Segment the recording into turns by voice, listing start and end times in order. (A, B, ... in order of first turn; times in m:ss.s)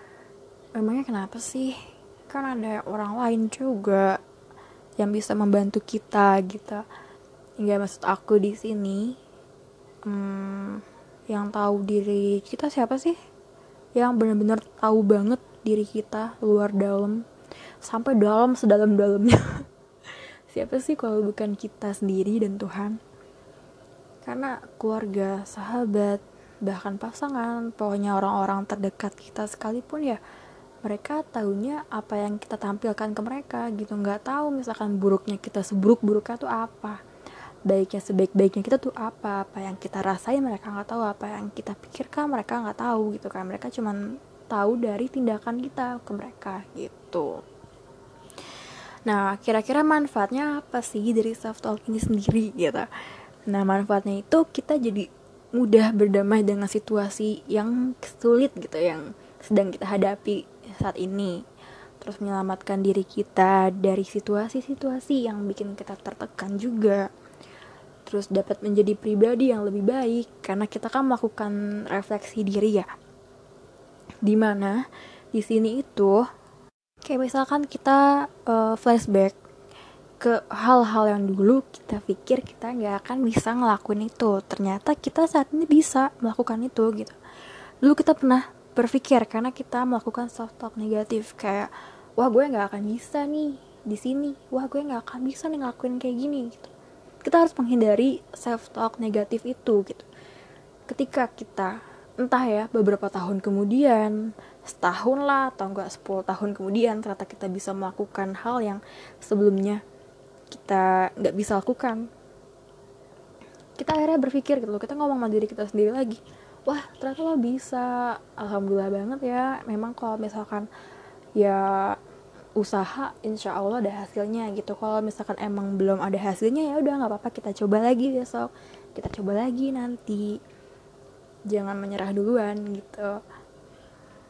0:00.8-0:01.7 A
0:02.3-0:04.2 A
0:05.0-0:06.8 A
0:07.6-0:09.1 A
0:10.0-0:13.2 A
0:14.0-0:17.2 A
0:17.8-0:19.4 A
0:20.5-0:23.0 A
0:24.2-0:30.2 A
0:30.8-0:37.0 A
0:37.7-0:44.0 A
0:44.5-0:47.4 A
0:49.0-0:52.9 A
0:53.5-1:01.4 A
1:02.0-1:07.1 A
1:08.0-1:12.9 A
1:14.2-1:14.8 A
1:15.3-1:16.2 A
1:17.0-1:19.3 A
1:20.2-1:27.2 A
1:27.8-1:36.7 A
1:37.2-1:40.1 A
1:40.9-1:49.8 A
1:50.5-1:52.1 A
1:53.8-2:00.7 A
2:01.4-2:01.9 A
2:02.6-2:10.4 A
2:11.5-2:13.2 A